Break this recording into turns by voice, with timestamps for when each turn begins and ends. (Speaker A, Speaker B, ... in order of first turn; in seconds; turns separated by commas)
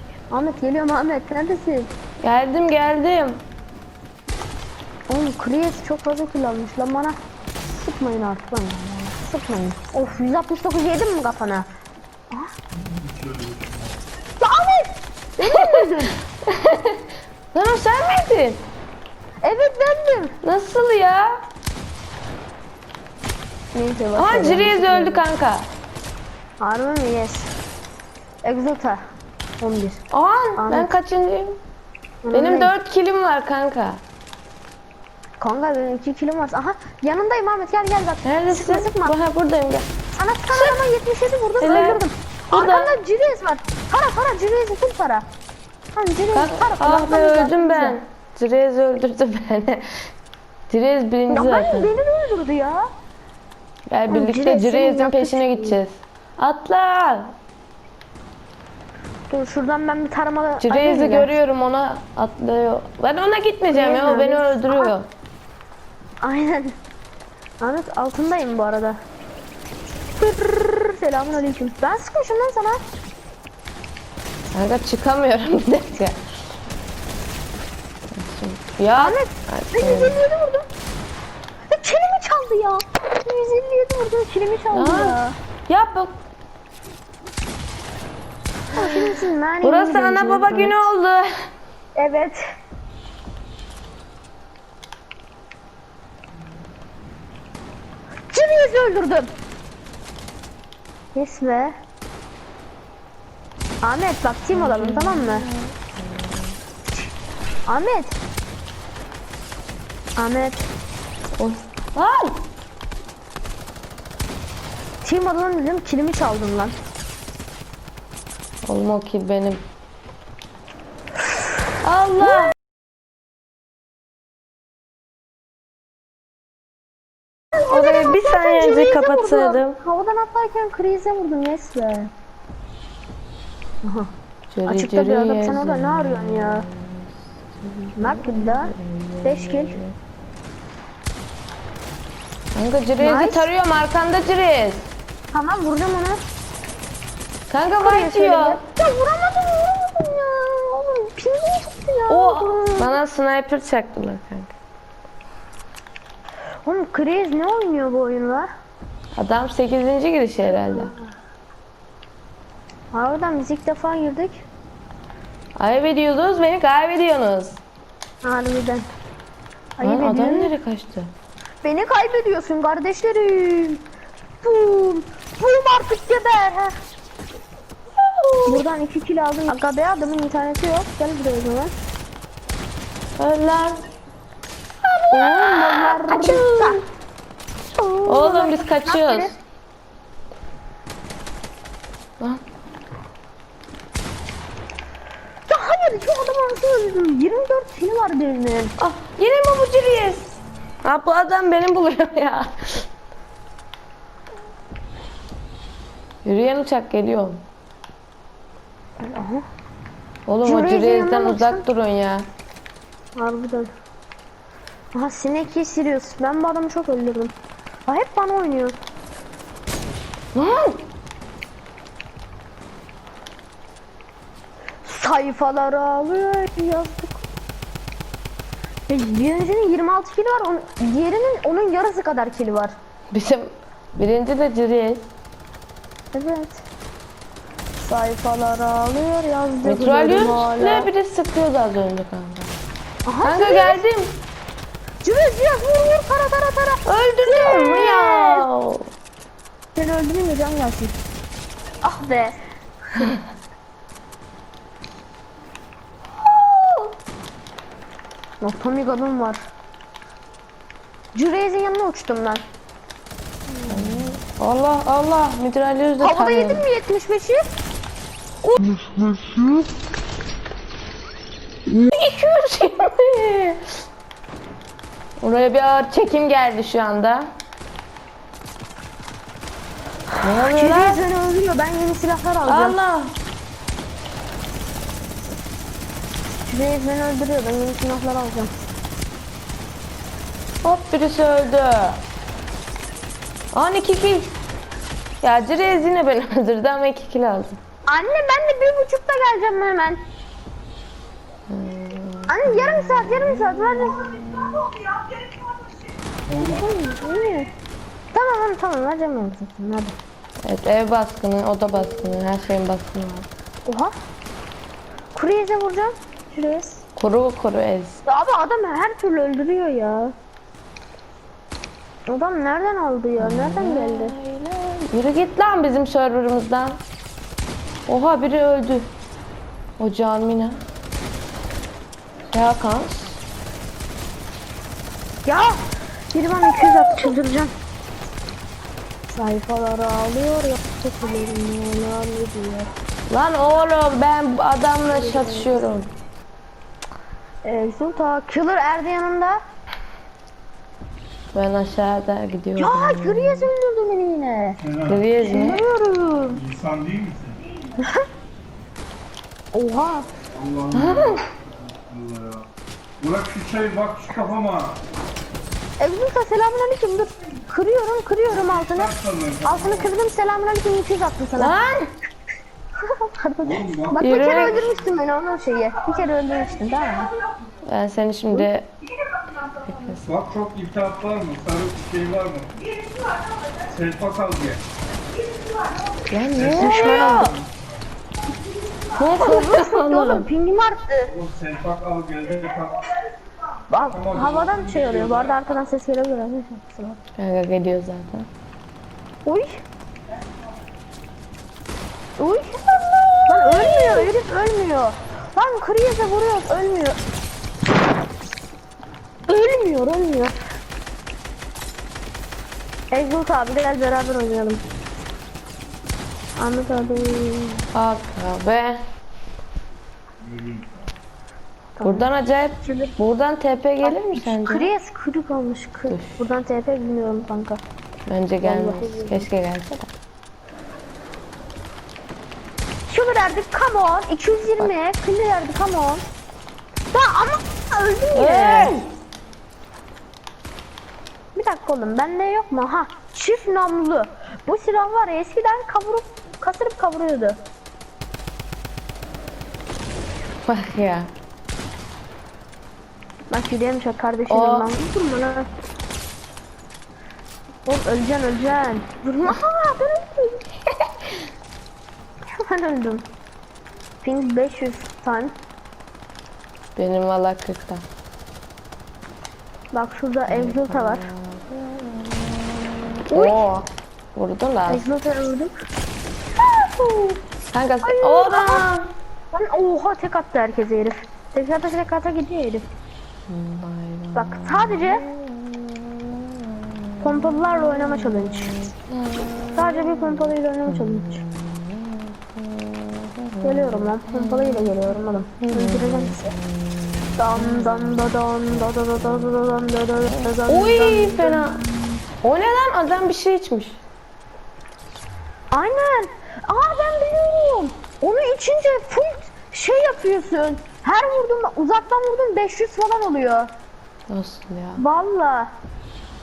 Speaker A: 0.3-1.9, Speaker B: 2.2-3.4, Speaker A: 5.1-7.2, Speaker A: 7.7-11.7, Speaker C: 12.7-14.0, Speaker A: 14.4-16.1, Speaker B: 15.4-15.9, Speaker B: 16.5-17.0, Speaker B: 17.5-18.6, Speaker A: 19.4-20.4, Speaker B: 20.4-21.4, Speaker A: 23.7-25.2, Speaker B: 24.2-25.7, Speaker A: 26.6-27.5, Speaker A: 28.4-29.0, Speaker A: 29.6-30.0, Speaker B: 30.1-31.6, Speaker A: 30.6-30.9, Speaker A: 32.2-32.7, Speaker B: 32.3-34.0, Speaker A: 35.4-39.1, Speaker B: 38.2-39.9, Speaker A: 40.1-45.3, Speaker B: 41.6-42.9, Speaker A: 45.9-48.0, Speaker B: 46.3-50.1, Speaker B: 50.7-51.9, Speaker A: 51.3-52.9, Speaker B: 53.9-57.3, Speaker A: 54.1-55.8, Speaker A: 59.3-61.3, Speaker B: 60.6-65.1, Speaker A: 63.7-64.9, Speaker A: 66.2-66.8, Speaker A: 67.6-69.0, Speaker A: 70.2-72.8, Speaker B: 74.5-76.2, Speaker B: 78.1-80.2, Speaker A: 79.0-80.7, Speaker A: 81.7-85.3, Speaker B: 84.7-86.2, Speaker A: 88.7-90.8, Speaker B: 89.6-91.5, Speaker A: 92.0-92.4, Speaker A: 98.3-99.3, Speaker A: 101.2-101.8, Speaker A: 103.8-105.5, Speaker B: 104.5-106.5, Speaker A: 107.7-108.2, Speaker A: 110.2-110.7, Speaker B: 111.4-112.4, Speaker A: 115.0-116.7, Speaker B: 118.7-119.6, Speaker B: 121.8-122.5, Speaker A: 127.5-132.1, Speaker B: 127.7-129.8, Speaker A: 133.8-134.1, Speaker B: 134.5-140.0, Speaker A: 134.7-136.7, Speaker A: 138.0-138.7, Speaker A: 139.2-139.8, Speaker B: 142.5-144.9, Speaker A: 143.0-143.5, Speaker A: 145.3-146.2, Speaker B: 147.5-148.6, Speaker A: 147.8-153.0, Speaker B: 152.1-154.5, Speaker A: 156.7-158.5, Speaker B: 159.2-160.9, Speaker A: 160.5-160.9, Speaker A: 162.9-164.4, Speaker B: 165.6-167.6, Speaker A: 168.2-168.9, Speaker A: 169.8-170.5, Speaker B: 169.8-171.1, Speaker A: 171.6-173.8, Speaker A: 174.4-176.7, Speaker B: 178.0-178.6, Speaker A: 178.5-181.7, Speaker B: 183.2-183.8, Speaker A: 185.1-186.8, Speaker B: 185.1-186.8, Speaker A: 187.8-189.3, Speaker B: 188.1-189.3, Speaker A: 195.5-198.8, Speaker B: 198.8-200.3, Speaker B: 200.8-202.9, Speaker B: 206.2-207.4, Speaker A: 209.0-209.4, Speaker B: 210.3-212.3, Speaker A: 210.4-211.6, Speaker A: 213.2-213.7, Speaker A: 214.9-217.3, Speaker A: 217.9-218.8, Speaker B: 220.3-220.8, Speaker A: 224.8-227.3, Speaker A: 228.9-232.8, Speaker B: 233.1-235.1, Speaker A: 236.1-236.6, Speaker A: 237.8-240.9, Speaker B: 239.6-242.5, Speaker A: 243.1-243.8, Speaker B: 243.2-244.2, Speaker A: 245.0-248.5, Speaker B: 246.8-248.9, Speaker A: 249.8-250.9, Speaker A: 251.8-252.3, Speaker A: 256.3-256.9, Speaker A: 258.4-259.4, Speaker A: 261.1-262.4, Speaker A: 263.5-264.0, Speaker B: 263.7-266.6, Speaker A: 266.0-267.4, Speaker C: 268.9-269.1, Speaker B: 271.7-273.7, Speaker B: 275.2-277.3, Speaker A: 280.1-282.8, Speaker B: 280.2-281.0, Speaker B: 282.4-283.1, Speaker A: 286.5-288.5, Speaker B: 290.6-292.0, Speaker B: 293.5-294.3, Speaker B: 295.2-297.6, Speaker A: 297.9-300.0, Speaker B: 301.5-304.6, Speaker A: 302.3-305.4, Speaker C: 306.2-306.7, Speaker A: 306.4-307.5, Speaker A: 308.1-309.9, Speaker B: 310.4-313.3, Speaker A: 313.7-313.9, Speaker A: 315.1-316.8, Speaker B: 317.0-318.0, Speaker A: 318.1-320.1, Speaker A: 322.1-324.2, Speaker B: 323.2-326.8, Speaker B: 327.9-328.9, Speaker B: 329.8-330.6, Speaker B: 332.3-333.2, Speaker A: 335.3-335.6, Speaker A: 336.1-337.5, Speaker A: 339.1-342.7, Speaker B: 343.1-345.9, Speaker A: 344.9-345.5, Speaker A: 347.4-349.4, Speaker B: 351.3-353.5, Speaker A: 352.6-354.6, Speaker C: 354.6-355.1, Speaker B: 354.9-355.6, Speaker A: 355.2-356.4, Speaker C: 356.3-357.4, Speaker A: 357.8-358.1, Speaker A: 359.5-360.1, Speaker C: 360.3-362.5, Speaker B: 360.8-361.2, Speaker C: 363.0-364.8, Speaker A: 365.8-368.9, Speaker C: 368.3-369.9, Speaker A: 369.4-371.6, Speaker B: 371.4-371.9, Speaker A: 372.8-377.1, Speaker C: 373.4-374.8, Speaker B: 374.0-374.6, Speaker B: 377.6-378.7, Speaker B: 379.6-380.1, Speaker C: 380.0-382.7, Speaker C: 383.6-384.6, Speaker B: 386.1-387.4, Speaker C: 386.4-387.0, Speaker A: 386.4-387.5, Speaker B: 389.0-390.3, Speaker A: 389.2-391.1, Speaker C: 391.0-392.9, Speaker A: 393.7-397.0, Speaker C: 393.8-395.4, Speaker B: 397.2-398.3, Speaker A: 399.3-399.6, Speaker A: 402.2-407.0, Speaker B: 403.5-404.1, Speaker A: 409.3-410.3, Speaker A: 412.9-414.6, Speaker A: 416.4-417.6, Speaker B: 417.7-418.8, Speaker C: 420.2-420.9, Speaker A: 421.8-422.1, Speaker B: 421.8-424.7, Speaker A: 422.6-422.9, Speaker A: 423.8-427.6, Speaker B: 425.9-426.3, Speaker B: 428.1-429.9, Speaker A: 428.4-429.3, Speaker A: 432.9-436.1, Speaker A: 436.9-438.8, Speaker B: 438.1-438.9, Speaker A: 441.4-447.4, Speaker B: 450.5-451.1, Speaker A: 453.3-455.5, Speaker B: 454.3-454.7, Speaker A: 457.7-460.4, Speaker A: 462.3-463.0, Speaker A: 464.0-465.3, Speaker B: 466.8-467.8, Speaker A: 469.7-471.1, Speaker B: 470.3-474.8, Speaker A: 473.1-473.4, Speaker A: 474.7-475.5, Speaker A: 476.4-477.2, Speaker B: 477.5-478.9, Speaker A: 477.8-478.6, Speaker A: 479.3-482.7, Speaker B: 483.3-494.7, Speaker A: 484.2-485.1, Speaker A: 487.0-488.6, Speaker A: 489.5-491.2, Speaker A: 493.4-496.4, Speaker B: 495.4-501.6, Speaker A: 497.2-502.0, Speaker B: 502.2-503.8, Speaker A: 505.5-513.5, Speaker B: 514.1-514.8, Speaker A: 514.8-515.5